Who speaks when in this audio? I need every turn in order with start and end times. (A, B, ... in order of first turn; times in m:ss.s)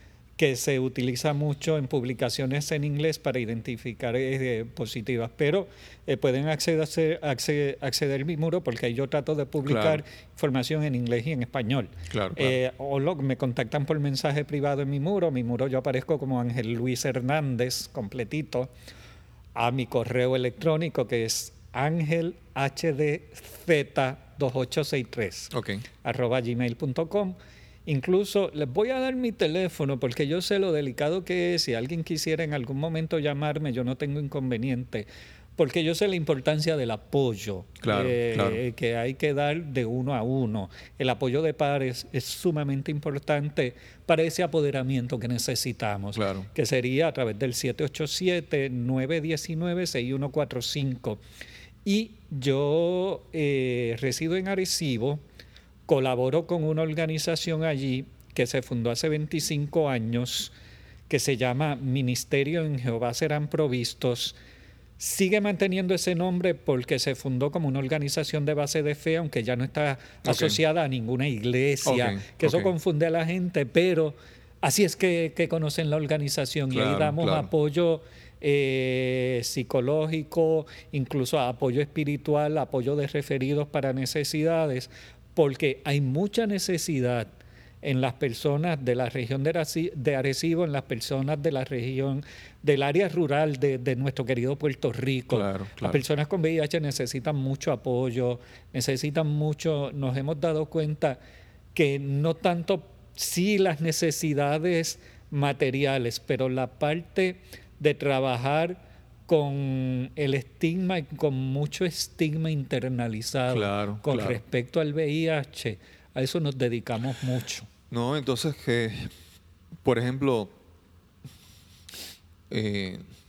0:00.4-0:18.7 A
0:09.6-0:10.0 B
0:12.1-0:12.6 B
0:19.6-0:25.5 A
0:25.5-0:25.8 B
0:26.0-0:51.2 A
0:37.8-0:38.6 B
0:46.2-0:46.5 B
0:51.8-0:55.2 A
0:55.9-1:00.5 A
1:01.1-1:04.4 A
1:05.0-1:27.3 A
1:10.2-1:10.6 B
1:11.8-1:12.7 B
1:16.7-1:17.5 B
1:27.8-1:41.2 A
1:35.3-1:36.0 B
1:41.7-1:57.7 A
1:53.5-1:54.4 B
1:57.9-1:59.1 B
1:59.8-2:00.5 B
2:02.5-2:03.0 B